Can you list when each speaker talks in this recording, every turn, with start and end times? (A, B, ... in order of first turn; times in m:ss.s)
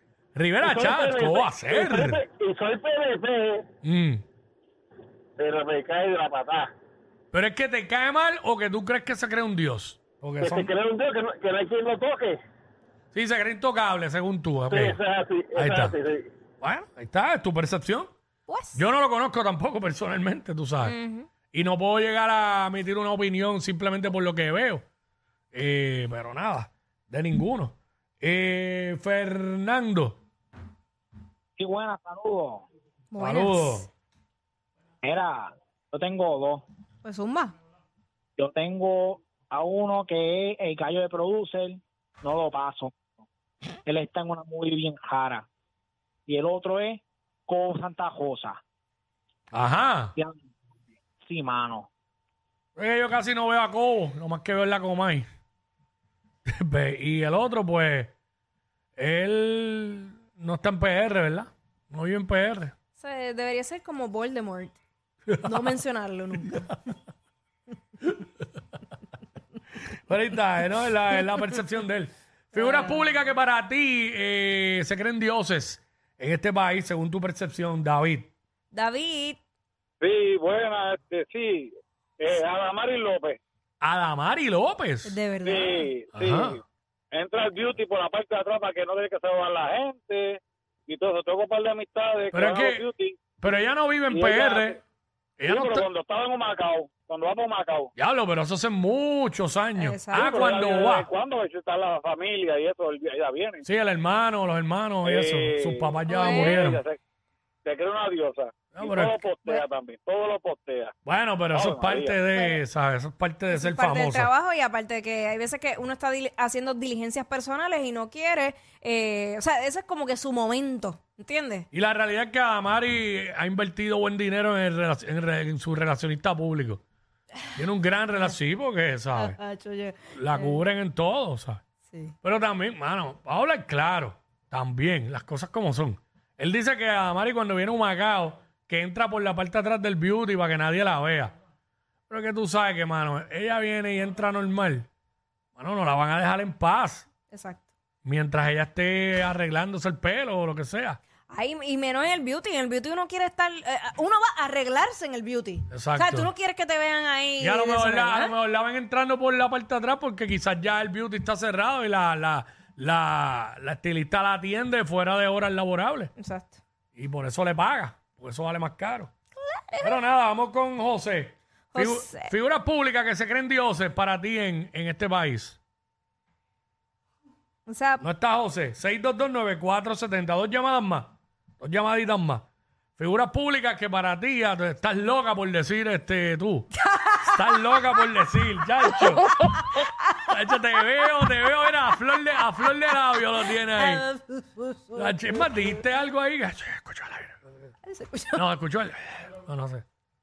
0:00.3-0:02.2 A
0:00.6-0:03.6 B
0:03.8-0:04.2 A
0:05.4-0:06.7 B
0:07.3-0:10.7 A
0:10.4-0:12.4 B
0:13.1-0:15.0 A
0:14.7-0:16.3 B
0:15.5-0:16.0 A
0:16.6-0:18.1 A
0:18.5-0:18.8 C
0:18.7-0:20.9 A
0:20.8-0:21.3 C
0:21.5-0:24.8 A
0:25.5-0:30.2 A
0:31.6-0:32.7 D
0:33.1-0:33.8 C
0:33.2-0:33.9 A
0:35.0-0:36.6 D
0:37.0-0:37.5 C
0:38.4-0:43.2 D
0:43.8-0:45.5 D
0:46.2-0:48.6 D
0:49.5-0:50.1 A
0:51.2-0:51.9 D
0:52.8-0:55.2 A
0:56.5-0:58.1 A
0:59.0-1:02.7 A
1:03.0-1:04.8 C
1:05.3-1:05.8 A
1:05.4-1:06.7 C
1:06.3-1:06.8 A
1:10.0-1:18.3 A
1:12.6-1:13.0 C
1:18.7-1:19.4 C
1:20.0-1:23.4 B
1:23.8-1:25.2 A
1:25.0-1:25.9 C
1:25.4-1:33.5 B
1:26.1-1:26.6 A
1:32.3-1:32.9 A
1:33.4-1:34.7 A
1:34.1-1:34.8 B
1:35.4-1:35.9 A
1:35.4-1:37.9 B
1:38.0-1:41.1 A
1:39.8-1:40.3 C
1:40.2-1:43.6 B
1:43.6-1:46.8 A
1:45.0-1:47.0 B
1:46.1-1:46.6 C
1:47.6-1:50.9 B
1:48.7-1:49.2 A
1:51.0-1:54.3 A
1:51.5-1:52.2 B
1:52.3-1:52.6 C
1:53.5-2:01.7 C
2:01.7-2:06.8 A
2:07.5-2:09.4 A
2:09.1-2:10.6 C
2:10.2-2:11.6 A
2:12.2-2:21.3 A
2:22.1-2:24.9 A
2:25.6-2:27.1 A
2:27.3-2:27.6 C
2:28.0-2:31.0 A
2:31.3-2:38.3 C
2:35.7-2:36.3 A
2:37.4-2:46.1 A
2:46.2-2:46.6 C
2:46.9-2:49.1 A
2:49.4-2:50.0 C
2:49.8-2:55.6 A
2:51.7-2:52.3 C
2:57.7-2:58.0 C
2:58.0-3:02.4 A
3:03.0-3:06.7 A
3:06.8-3:07.4 C
3:07.2-3:09.7 A
3:08.8-3:09.8 C
3:10.3-3:14.1 A
3:13.8-3:15.1 C
3:15.0-3:17.4 A
3:17.9-3:18.4 C
3:18.4-3:19.8 A